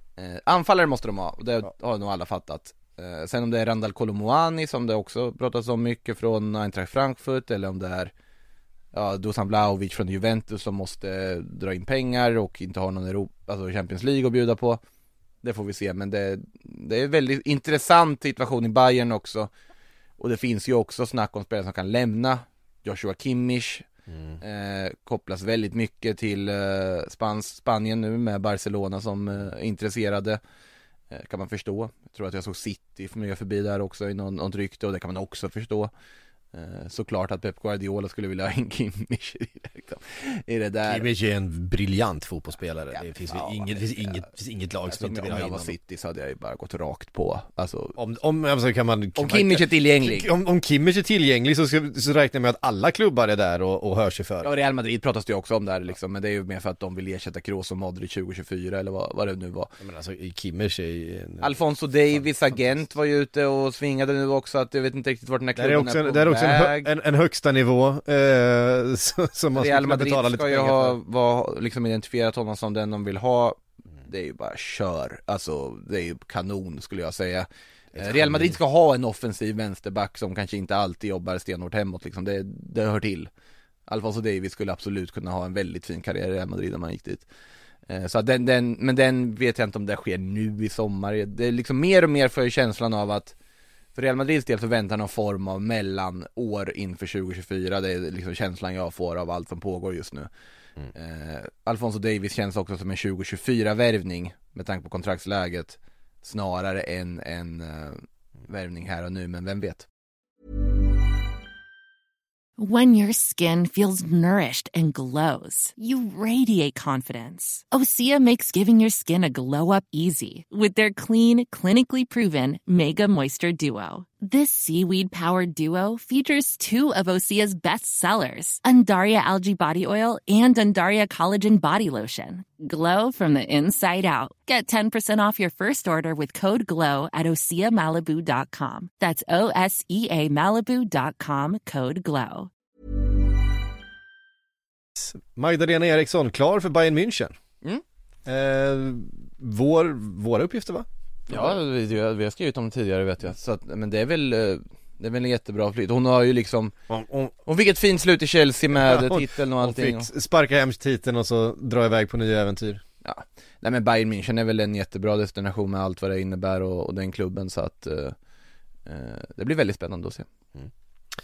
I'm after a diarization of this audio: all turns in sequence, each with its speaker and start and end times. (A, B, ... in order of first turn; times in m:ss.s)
0:00.2-0:08.1 A
0:08.9-0:14.8 A
0:15.4-0:19.5 A
0:20.2-0:23.8 A
0:24.1-0:24.4 B
0:24.4-0:30.4 A
0:31.1-0:35.9 A
0:36.5-0:41.0 A
0:40.9-0:45.7 B
0:42.9-0:44.2 A
0:44.9-0:48.0 A
0:48.0-0:54.5 B
0:49.2-0:50.3 A
0:54.4-0:59.7 A
0:59.8-1:01.6 B
1:01.4-1:06.9 A
1:02.1-1:02.7 B
1:05.6-1:11.0 B
1:09.6-1:23.3 A
1:17.9-1:18.6 B
1:23.9-1:27.2 A
1:27.9-1:33.3 A
1:33.9-1:40.3 A
1:40.9-1:49.8 A
1:52.6-2:22.5 C
2:25.0-2:27.3 B
2:28.2-2:31.6 B
2:31.3-2:36.7 A
2:36.9-2:37.3 B
2:37.4-2:40.1 A
2:38.7-2:42.8 B
2:43.0-2:48.2 A
2:48.8-2:50.2 A